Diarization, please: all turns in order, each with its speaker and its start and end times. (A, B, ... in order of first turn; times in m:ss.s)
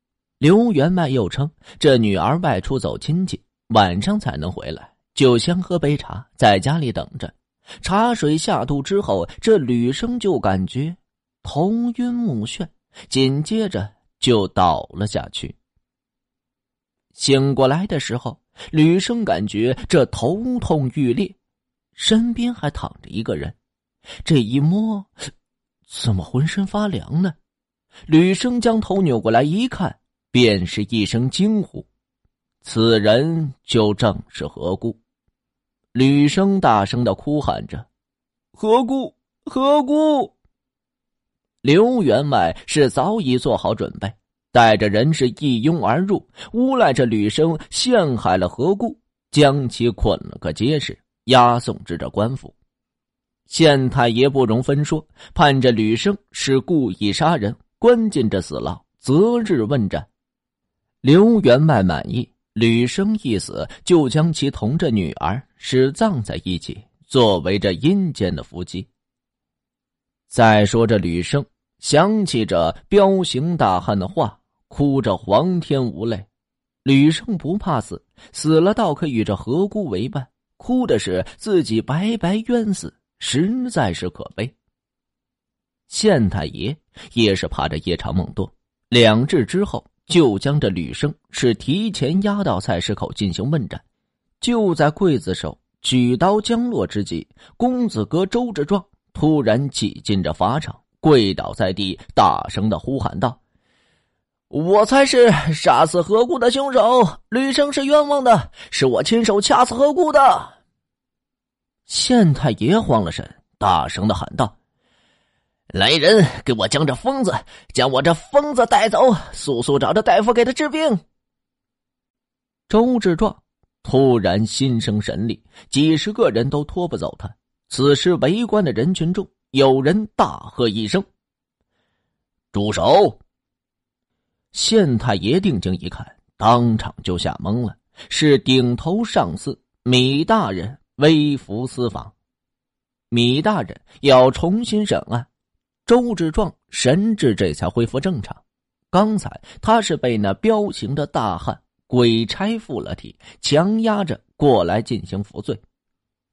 0:00.4-0:15.6 A
0:17.1-0:21.4 A
0:22.0-0:23.6 A
0:24.2-0:25.1 A
0:25.9-0:27.4 A
0:28.1-0:31.9 A
0:32.6-0:35.0 A
0:35.9-0:37.9 A
0:38.5-0:40.3 A
0:41.6-0:52.6 A
0:53.5-1:00.1 A
1:01.0-1:08.9 A
1:10.3-1:16.3 A
1:16.8-1:24.6 A
1:25.9-1:33.8 A
1:34.4-1:43.4 A
1:44.5-1:50.6 A
1:51.9-1:54.6 A
1:55.7-2:01.0 A
2:02.7-2:11.0 A
2:12.5-2:13.2 A
2:14.5-2:22.1 A
2:23.1-2:25.3 A
2:25.8-2:35.6 A